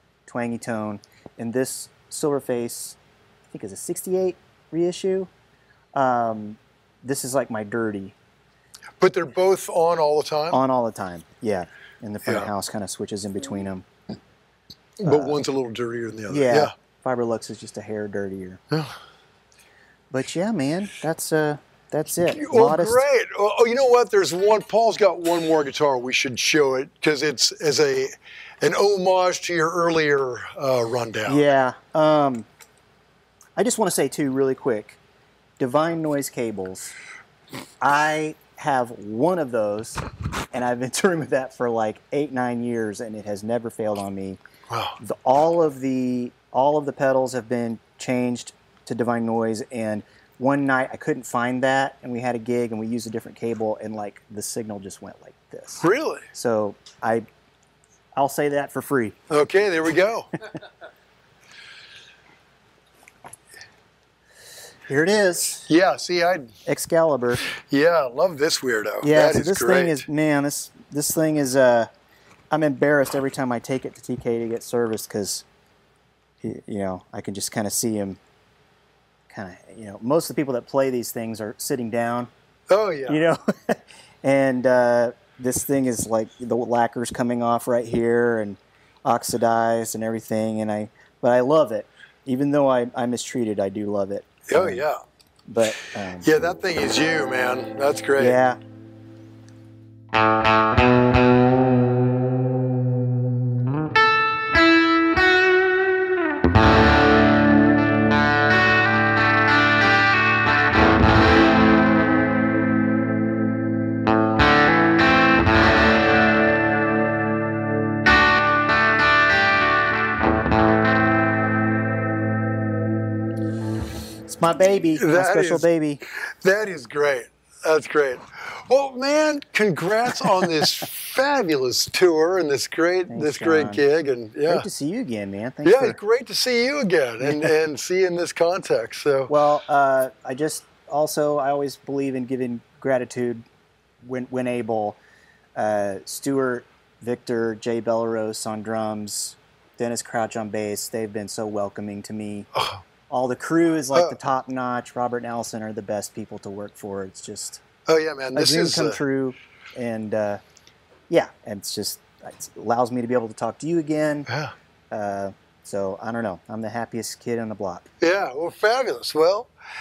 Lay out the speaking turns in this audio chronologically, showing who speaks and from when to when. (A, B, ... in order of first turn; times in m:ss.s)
0:00.3-0:03.0 A
0:03.5-0:05.3 A
0:05.9-0:08.2 A
0:09.0-0:10.6 B
0:10.5-0:13.9 A
0:15.0-0:16.7 B
0:15.0-0:15.4 A
0:16.3-0:18.6 A
0:18.7-0:19.0 B
0:20.1-0:23.0 A
0:22.3-0:31.5 B
0:31.3-0:32.5 A
0:33.6-0:35.0 A
0:35.6-0:36.9 A
0:37.8-0:44.4 A
0:44.7-0:45.0 B
0:45.0-0:57.3 A
0:55.8-0:56.3 B
0:58.2-0:59.2 A
0:59.3-1:00.3 B
1:04.9-1:05.7 A
1:05.7-1:06.5 B
1:06.7-1:07.5 A
1:07.5-1:10.0 B
1:09.0-1:11.9 A
1:12.5-1:15.4 A
1:16.4-1:18.2 A
1:19.3-1:22.3 A
1:22.7-1:23.2 B
1:23.1-1:34.8 A
1:34.5-1:35.0 B
1:35.5-1:36.3 A
1:36.2-1:38.4 B
1:38.2-1:38.6 A
2:04.3-2:06.0 A
2:05.0-2:14.7 B
2:13.1-2:13.8 A
2:14.5-2:16.0 A
2:15.6-2:19.3 B
2:17.2-2:17.5 A
2:19.3-2:23.4 A
2:24.0-2:25.0 A
2:25.6-2:32.5 A
2:32.6-2:32.8 B
2:33.1-2:37.6 A
2:37.9-2:39.0 B
2:38.4-2:40.4 A
2:41.1-2:44.3 A
2:44.3-2:44.5 B
2:44.9-2:47.9 A
2:48.0-2:49.5 B